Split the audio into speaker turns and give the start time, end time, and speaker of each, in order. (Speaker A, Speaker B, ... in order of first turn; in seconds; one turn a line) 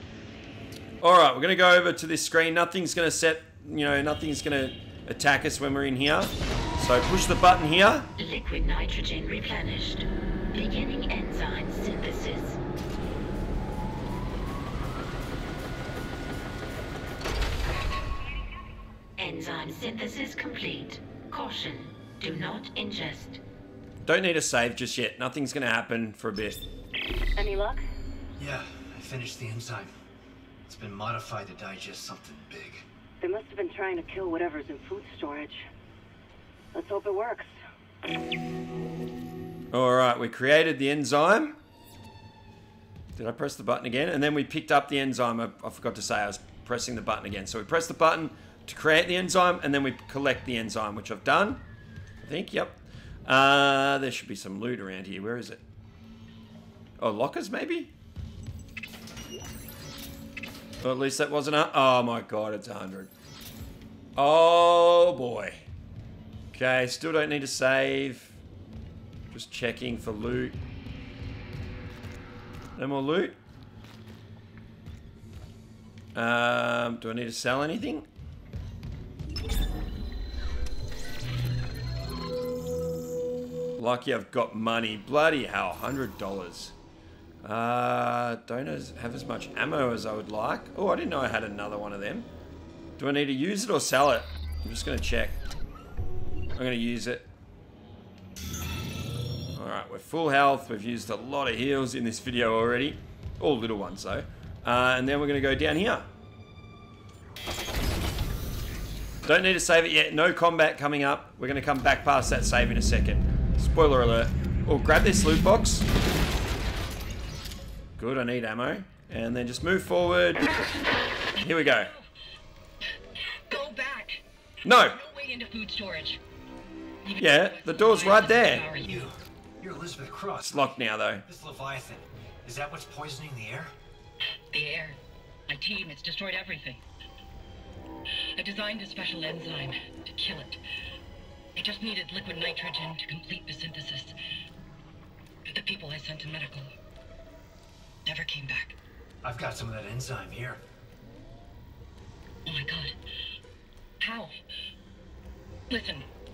Speaker A: 1.0-8.1
Speaker B: 8.2-12.6
Speaker B: 19.2-23.4
Speaker A: 24.1-26.6
Speaker C: 27.4-27.8
Speaker D: 28.4-29.9
Speaker D: 30.7-32.9
Speaker C: 33.2-35.7
Speaker C: 36.7-37.5
Speaker A: 39.7-41.6
Speaker A: 43.2-51.6
Speaker A: 52.2-55.6
Speaker A: 57.0-57.9
Speaker A: 60.8-63.1
Speaker A: 64.2-65.7
Speaker A: 66.5-68.4
Speaker A: 69.3-70.6
Speaker A: 72.8-73.4
Speaker A: 76.2-78.1
Speaker A: 83.8-86.7
Speaker A: 87.4-92.3
Speaker A: 93.0-95.4
Speaker A: 96.6-97.3
Speaker A: 99.5-106.1
Speaker A: 109.2-115.9
Speaker A: 118.0-120.6
Speaker A: 121.4-121.9
Speaker E: 123.5-126.2
Speaker A: 124.7-125.0
Speaker E: 127.0-129.1
Speaker A: 127.2-128.7
Speaker D: 128.7-130.7
Speaker A: 130.4-131.2
Speaker D: 131.3-133.7
Speaker E: 134.5-136.8
Speaker E: 138.4-140.6
Speaker E: 141.6-144.2
Speaker E: 145.5-146.7
Speaker E: 148.1-148.8
Speaker D: 149.2-150.6
Speaker E: 152.4-152.9
Speaker E: 154.0-154.3
Speaker E: 155.7-156.1